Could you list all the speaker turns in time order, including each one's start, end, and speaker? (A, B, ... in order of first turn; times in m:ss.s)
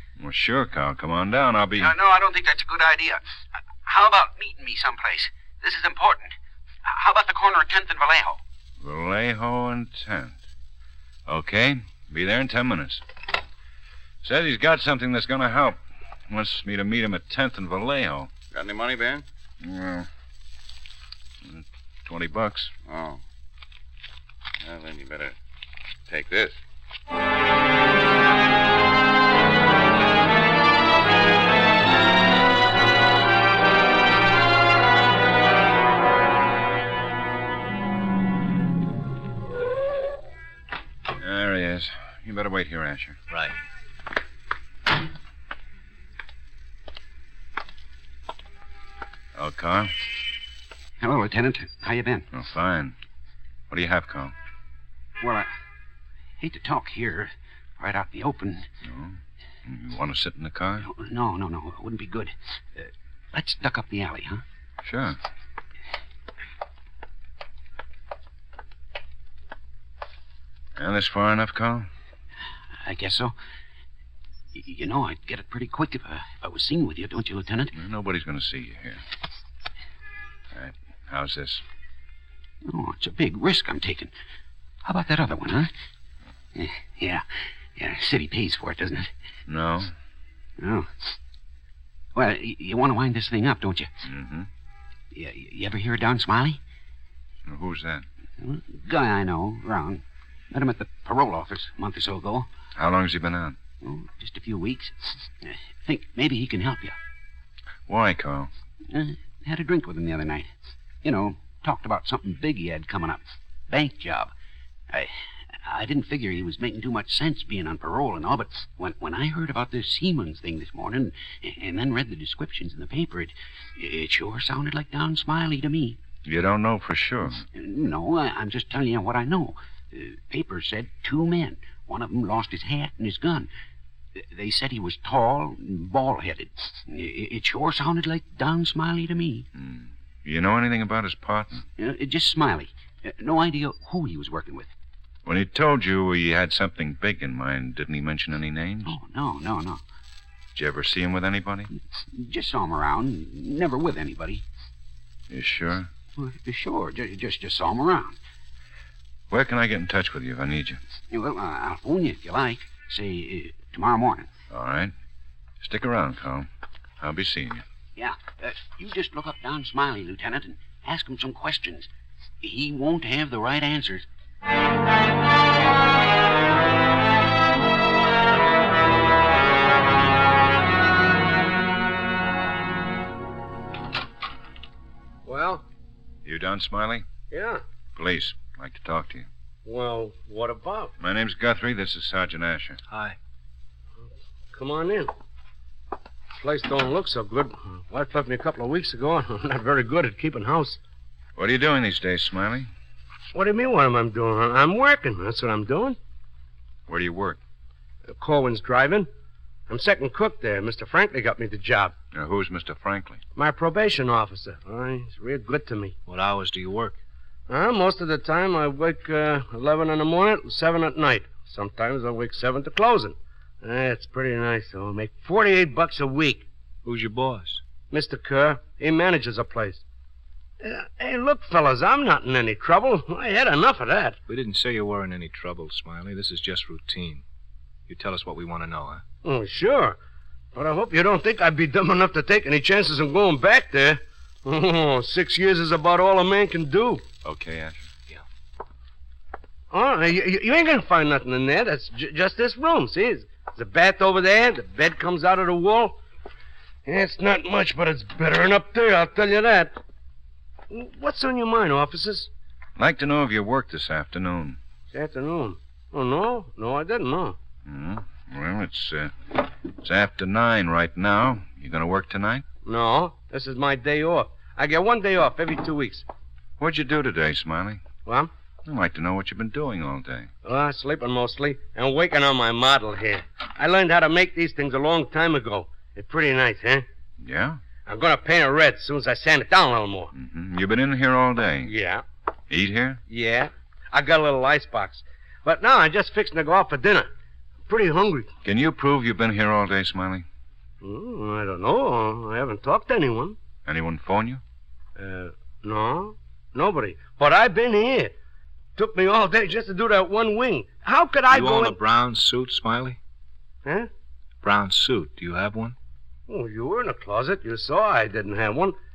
0:00.2-0:01.9 A
0:01.8-0:03.2 B
0:03.8-0:06.3 B
0:06.8-0:08.4 B
0:08.8-0:10.4 A
0:11.3-0:13.0 A
0:14.2-0:18.3 A
0:18.5-0:19.2 C
0:19.6-0:20.1 A
0:21.4-0:22.7 A
0:22.8-0:23.2 C
0:24.6-0:25.4 C
0:26.1-0:26.6 C
0:41.2-0:43.2 A
0:49.4-0:49.9 A
0:51.0-0:52.3 B
0:52.3-0:53.0 A
0:53.7-0:54.3 A
0:55.2-0:55.5 B
0:56.4-0:58.7 B
0:58.8-1:00.8 A
1:00.8-1:04.4 B
1:04.8-1:05.2 A
1:10.8-1:11.9 A
1:12.8-1:13.3 B
1:14.5-1:17.7 B
1:17.7-1:19.0 A
1:20.5-1:21.6 A
1:22.6-1:24.1 B
1:24.8-1:25.7 B
1:26.5-1:27.2 B
1:27.8-1:29.1 B
1:29.5-1:29.9 A
1:30.6-1:31.1 B
1:32.2-1:33.9 B
1:34.1-1:34.5 A
1:35.1-1:36.6 B
1:37.5-1:38.0 A
1:38.4-1:42.5 B
1:42.7-1:43.6 A
1:43.8-1:47.0 B
1:47.9-1:48.5 A
1:48.9-1:50.5 B
1:51.0-1:54.3 B
1:55.6-2:06.0 B
2:06.2-2:07.4 A
2:07.5-2:13.5 B
2:14.2-2:19.5 B
2:19.5-2:21.6 A
2:21.8-2:24.7 B
2:25.2-2:28.9 A
2:28.8-2:29.8 B
2:30.5-2:31.7 A
2:32.0-2:34.4 B
2:35.3-2:35.9 A
2:36.2-2:38.2 B
2:39.3-2:40.8 A
2:41.1-2:44.3 B
2:44.5-2:44.9 A
2:45.6-2:46.5 A
2:47.0-2:47.6 A
2:48.0-2:51.9 B
2:52.4-2:54.0 B
3:05.2-3:05.6 D
3:06.2-3:07.0 A
3:07.3-3:07.6 D
3:07.9-3:09.3 A
3:09.6-3:10.9 D
3:11.0-3:12.8 A
3:12.9-3:13.2 E
3:14.5-3:15.1 D
3:16.4-3:20.8 D
3:21.4-3:22.7 A
3:23.3-3:26.0 D
3:26.9-3:27.4 A
3:28.1-3:29.1 D
3:29.7-3:31.9 D
3:32.1-3:33.2 A
3:33.4-3:35.9 D
3:36.1-3:37.0 E
3:37.5-3:46.4 D
3:46.8-3:47.6 E
3:47.9-3:49.8 D
3:50.6-3:54.2 D
3:54.3-3:57.2 E
3:57.9-3:59.0 E
3:59.2-4:00.0 D
4:00.5-4:07.0 D
4:07.2-4:07.8 A
4:09.7-4:16.0 D
4:16.8-4:19.8 D
4:20.7-4:22.3 D
4:22.8-4:24.6 A
4:24.9-4:27.4 D
4:27.7-4:29.3 A
4:29.8-4:32.4 A
4:32.6-4:36.0 D
4:36.6-4:37.8 A
4:38.0-4:38.3 D
4:38.6-4:40.3 A
4:40.4-4:46.8 D
4:47.2-4:47.6 A
4:47.8-4:50.1 D
4:50.1-4:51.7 A
4:51.6-4:52.0 D
4:52.5-4:53.0 A
4:53.1-4:57.1 D
4:57.7-4:58.3 D
4:58.4-5:00.2 A
5:00.8-5:03.4 D
5:03.6-5:04.4 A
5:05.0-5:08.1 D
5:08.8-5:11.8 D
5:11.3-5:13.0 E
5:13.6-5:13.9 D
5:14.4-5:15.8 E
5:16.3-5:18.8 D